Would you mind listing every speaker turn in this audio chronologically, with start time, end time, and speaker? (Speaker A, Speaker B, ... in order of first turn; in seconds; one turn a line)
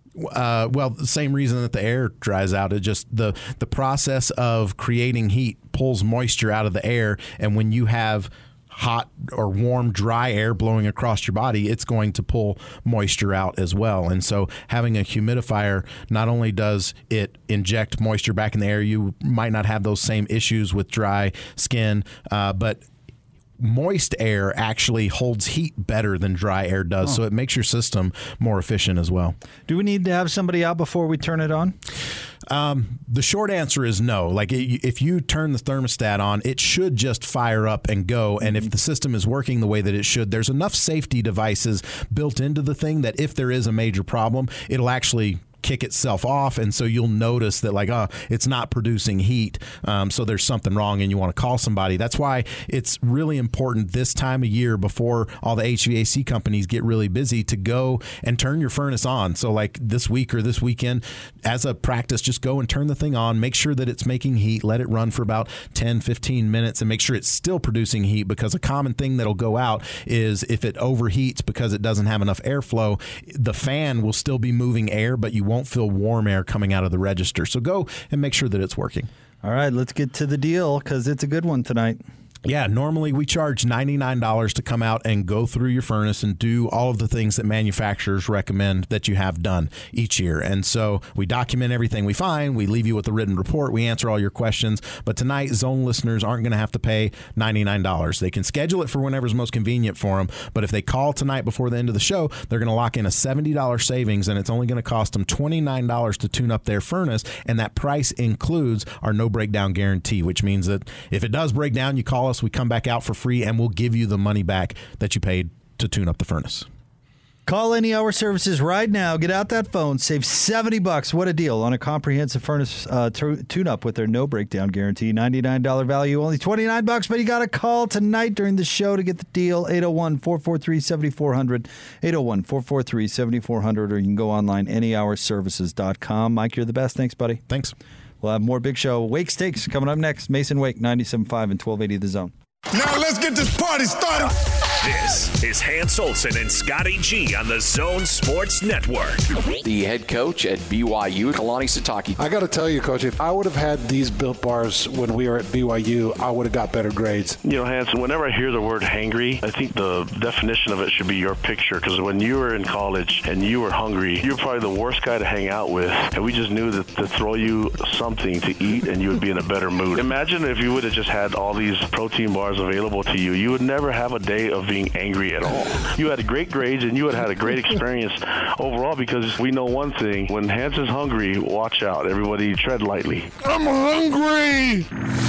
Speaker A: 0.2-22.8
Speaker A: 23.6-29.4
Speaker B: 29.7-31.8
Speaker A: 32.5-79.1
Speaker B: 38.4-38.7
Speaker B: 79.4-82.0
Speaker A: 82.5-116.7
Speaker B: 117.5-137.4
Speaker A: 137.5-137.8
Speaker B: 138.2-142.3
Speaker C: 143.0-144.0
Speaker D: 144.8-149.2
Speaker E: 149.6-152.3
Speaker F: 152.6-157.3
Speaker G: 157.4-183.3
Speaker C: 183.8-184.7